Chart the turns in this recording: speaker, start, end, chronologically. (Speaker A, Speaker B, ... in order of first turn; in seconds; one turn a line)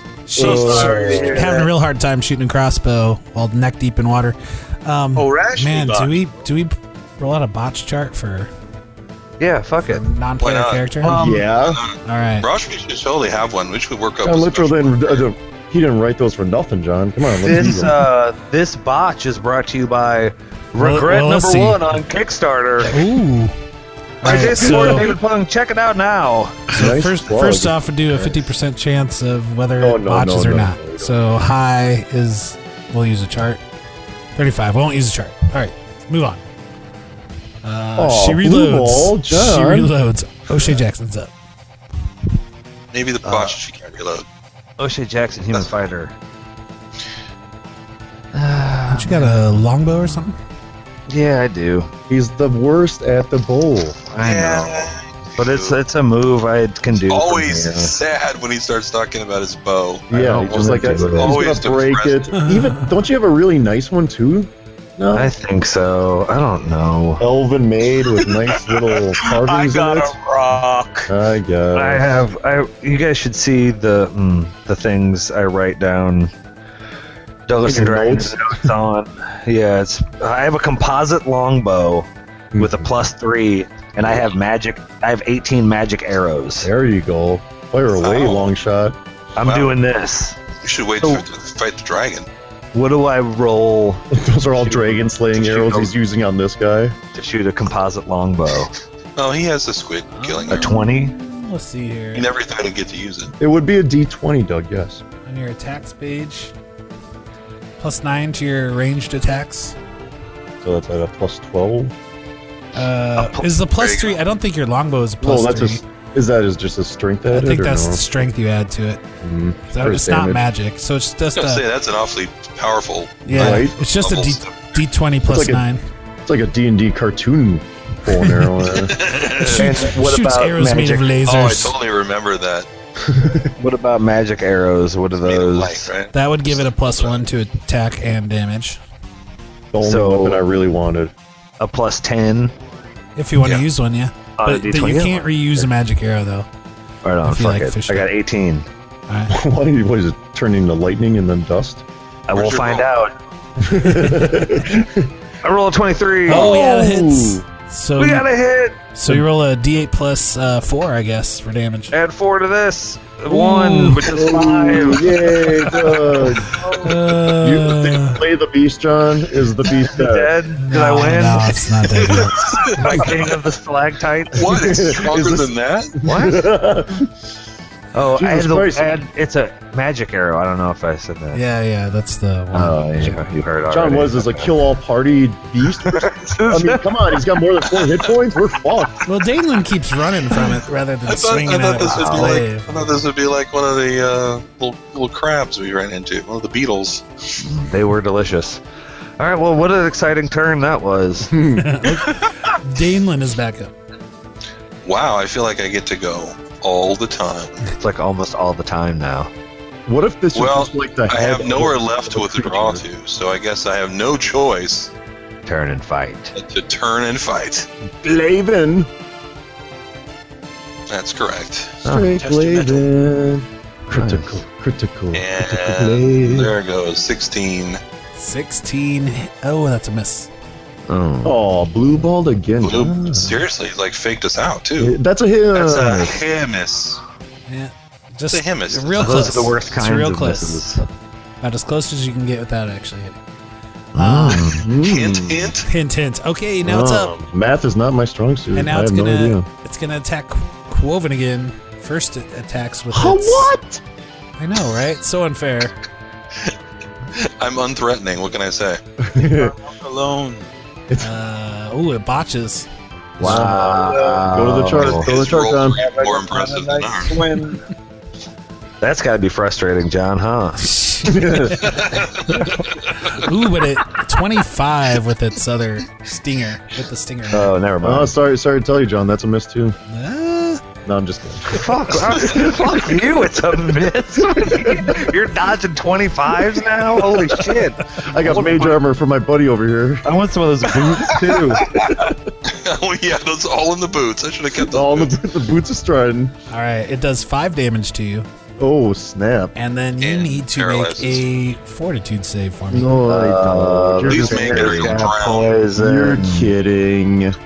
Speaker A: 0.3-8.5
Speaker B: 0.3-1.6
Speaker C: 0.4-1.5
Speaker D: 0.8-1.6
Speaker C: 5.1-6.1
Speaker D: 9.4-10.0
Speaker A: 9.9-11.1
Speaker E: 10.4-10.9
Speaker D: 11.0-11.5
Speaker B: 11.1-11.8
Speaker E: 11.6-15.2
Speaker A: 12.0-12.5
Speaker B: 14.2-18.1
Speaker D: 17.4-23.0
Speaker A: 20.8-21.8
Speaker A: 22.9-23.5
Speaker A: 24.2-25.1
Speaker D: 24.2-26.7
Speaker B: 24.6-25.1
Speaker A: 26.7-33.6
Speaker B: 26.7-28.4
Speaker B: 29.8-31.1
Speaker A: 34.4-36.4
Speaker A: 37.6-41.3
Speaker B: 38.0-39.9
Speaker E: 42.9-44.2
Speaker D: 43.2-43.6
Speaker D: 44.8-46.1
Speaker D: 48.3-49.6
Speaker A: 48.9-50.4
Speaker D: 51.1-51.9
Speaker B: 52.1-54.0
Speaker D: 54.1-57.9
Speaker E: 54.2-55.8
Speaker E: 56.9-62.3
Speaker B: 60.1-65.3
Speaker D: 60.1-61.5
Speaker A: 62.4-62.9
Speaker D: 65.1-67.2
Speaker B: 67.2-70.1
Speaker C: 69.2-71.1
Speaker B: 71.1-72.2
Speaker D: 71.7-76.3
Speaker D: 77.5-86.7
Speaker B: 77.6-78.7
Speaker B: 82.5-83.0
Speaker B: 86.6-89.0
Speaker E: 88.0-88.5
Speaker D: 89.4-90.4
Speaker E: 89.4-89.8
Speaker E: 90.6-92.3
Speaker D: 92.7-95.9
Speaker B: 94.1-97.0
Speaker D: 97.1-98.7
Speaker E: 99.2-100.8
Speaker A: 100.1-102.3
Speaker D: 100.5-101.1
Speaker E: 102.1-103.3
Speaker B: 103.4-105.0
Speaker A: 105.2-106.5
Speaker A: 107.8-109.7
Speaker B: 110.6-111.9
Speaker A: 112.7-115.8
Speaker D: 113.2-113.5
Speaker E: 113.8-114.2
Speaker B: 115.2-118.0
Speaker A: 117.3-119.0
Speaker B: 119.2-120.4
Speaker A: 119.7-121.6
Speaker E: 121.3-124.8
Speaker A: 123.2-125.8
Speaker B: 123.3-123.8
Speaker B: 125.2-125.7
Speaker B: 126.2-129.0
Speaker E: 128.7-129.8
Speaker A: 129.4-131.7
Speaker D: 129.4-131.2
Speaker E: 131.2-132.7
Speaker B: 133.1-133.5
Speaker D: 133.6-135.9
Speaker E: 135.2-137.2
Speaker A: 136.1-138.8
Speaker B: 139.7-141.1
Speaker D: 139.8-140.4
Speaker D: 141.6-142.5
Speaker A: 143.2-146.5
Speaker D: 144.4-145.7
Speaker D: 147.0-148.7
Speaker A: 147.2-148.1
Speaker A: 149.1-149.3
Speaker B: 149.3-151.8
Speaker D: 152.3-153.1
Speaker E: 152.3-152.9
Speaker B: 153.6-155.1
Speaker D: 155.4-156.6
Speaker A: 156.3-158.3
Speaker B: 156.3-157.4
Speaker D: 158.0-158.8
Speaker A: 158.9-161.9
Speaker D: 161.9-165.9
Speaker A: 163.3-164.1
Speaker B: 164.0-170.3
Speaker D: 166.4-166.9
Speaker A: 166.7-168.2
Speaker D: 169.8-171.7
Speaker A: 170.6-172.7
Speaker E: 172.1-173.3
Speaker D: 172.7-174.5
Speaker E: 174.3-175.9
Speaker B: 174.4-177.1
Speaker D: 176.0-176.4
Speaker D: 177.9-181.4
Speaker B: 178.1-179.0
Speaker A: 181.3-183.2
Speaker D: 182.5-184.5
Speaker B: 183.7-189.0
Speaker D: 185.8-187.2
Speaker A: 189.1-192.8
Speaker E: 191.1-197.1
Speaker D: 191.8-192.4
Speaker D: 197.4-198.6
Speaker D: 199.2-201.3
Speaker B: 201.3-201.7
Speaker A: 201.6-203.7
Speaker E: 204.8-207.6
Speaker D: 207.8-209.3
Speaker B: 209.8-212.8
Speaker E: 210.3-214.9
Speaker D: 215.4-216.3
Speaker E: 216.3-217.7
Speaker B: 218.0-218.9
Speaker E: 220.9-221.8
Speaker B: 221.8-226.5
Speaker D: 221.8-222.2
Speaker C: 222.2-222.8
Speaker D: 223.9-224.2
Speaker E: 225.1-227.8
Speaker A: 228.2-230.3
Speaker D: 230.9-231.4
Speaker B: 231.2-233.4
Speaker E: 232.6-235.0
Speaker B: 234.8-236.2
Speaker D: 235.6-236.1
Speaker E: 235.6-237.0
Speaker A: 237.5-240.6
Speaker E: 238.3-239.3
Speaker D: 239.0-240.8
Speaker A: 241.4-243.2
Speaker A: 243.9-244.4
Speaker D: 243.9-244.7
Speaker B: 244.0-245.5
Speaker E: 244.8-245.7
Speaker A: 245.7-247.1
Speaker B: 246.6-249.4
Speaker A: 248.5-253.5
Speaker B: 252.9-253.8
Speaker A: 254.4-255.7
Speaker E: 257.2-258.8
Speaker B: 259.0-259.5
Speaker C: 259.2-260.5
Speaker A: 261.0-262.7
Speaker D: 263.2-265.1
Speaker B: 263.2-265.8
Speaker C: 263.6-264.3
Speaker E: 264.8-267.2
Speaker C: 265.7-267.6
Speaker D: 268.8-270.7
Speaker A: 270.6-271.8
Speaker B: 271.1-271.8
Speaker E: 271.7-272.0
Speaker A: 272.9-277.5
Speaker D: 277.3-278.1
Speaker B: 277.8-279.8
Speaker A: 279.9-280.6
Speaker B: 280.8-282.5
Speaker D: 281.5-288.8
Speaker B: 284.4-285.0
Speaker B: 288.0-290.1
Speaker D: 290.0-291.8
Speaker B: 291.7-292.1
Speaker E: 291.8-295.1
Speaker B: 294.6-296.3
Speaker A: 296.5-298.3
Speaker B: 298.6-299.5
Speaker A: 299.6-302.9
Speaker E: 300.0-301.2
Speaker B: 302.7-305.1
Speaker D: 303.1-306.5
Speaker E: 304.1-305.5
Speaker B: 305.7-307.4